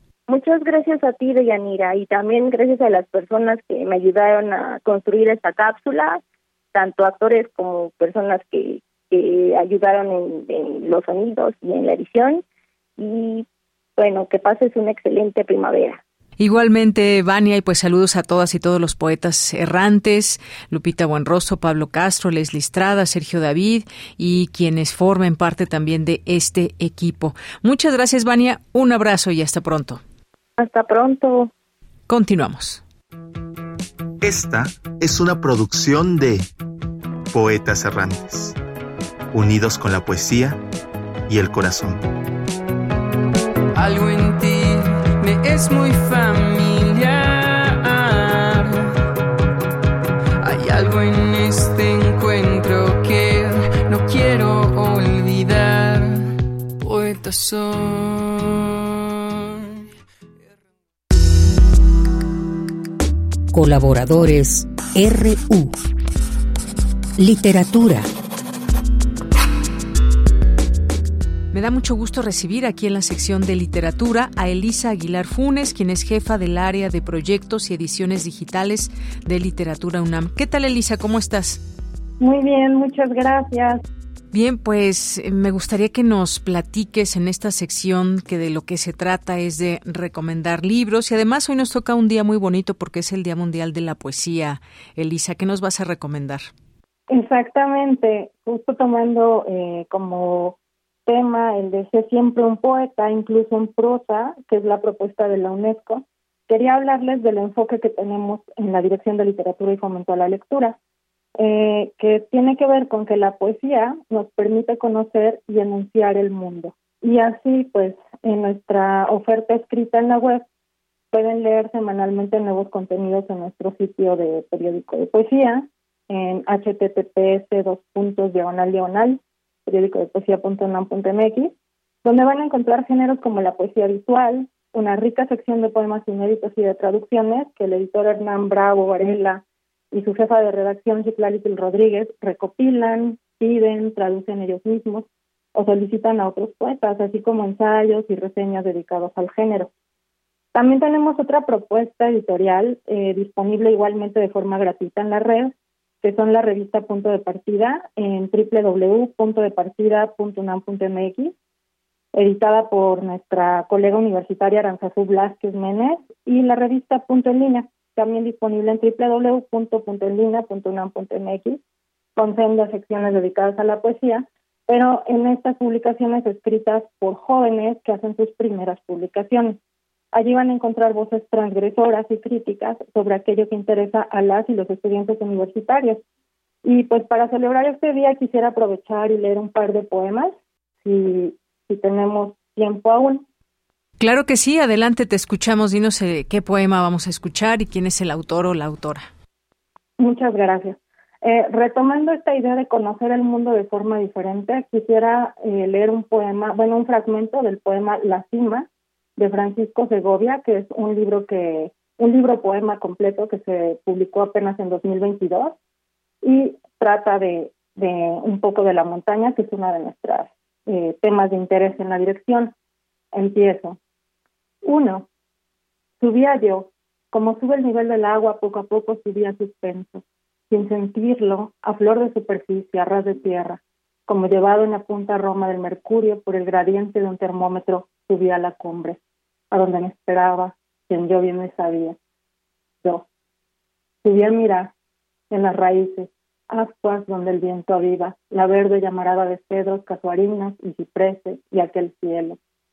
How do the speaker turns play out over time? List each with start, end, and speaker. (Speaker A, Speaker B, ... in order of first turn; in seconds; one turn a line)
Speaker A: 0.3-6.2
Speaker A: 6.7-12.4
Speaker A: 13.0-13.4
Speaker A: 14.0-16.0
Speaker B: 16.4-30.0
Speaker A: 30.6-31.5
Speaker B: 32.1-32.8
Speaker C: 34.2-36.5
Speaker C: 37.3-38.5
Speaker C: 39.3-40.6
Speaker C: 41.3-42.0
Speaker D: 43.7-48.9
Speaker D: 50.4-56.3
Speaker D: 56.8-59.7
Speaker E: 63.5-65.7
Speaker E: 67.2-68.1
Speaker B: 71.5-81.6
Speaker F: 82.2-83.8
Speaker B: 84.3-96.5
Speaker F: 97.1-110.8
Speaker F: 111.4-120.4
Speaker F: 121.1-131.5
Speaker F: 132.0-149.7
Speaker F: 150.5-161.3
Speaker F: 162.1-171.6
Speaker F: 172.2-179.6
Speaker F: 180.1-186.0
Speaker F: 186.6-193.2
Speaker B: 194.0-199.1
Speaker F: 200.0-215.5
Speaker F: 216.2-222.5
Speaker F: 223.1-223.8
Speaker F: 224.6-225.1
Speaker F: 226.0-239.0
Speaker F: 239.5-241.9
Speaker F: 244.0-244.7
Speaker F: 245.3-252.4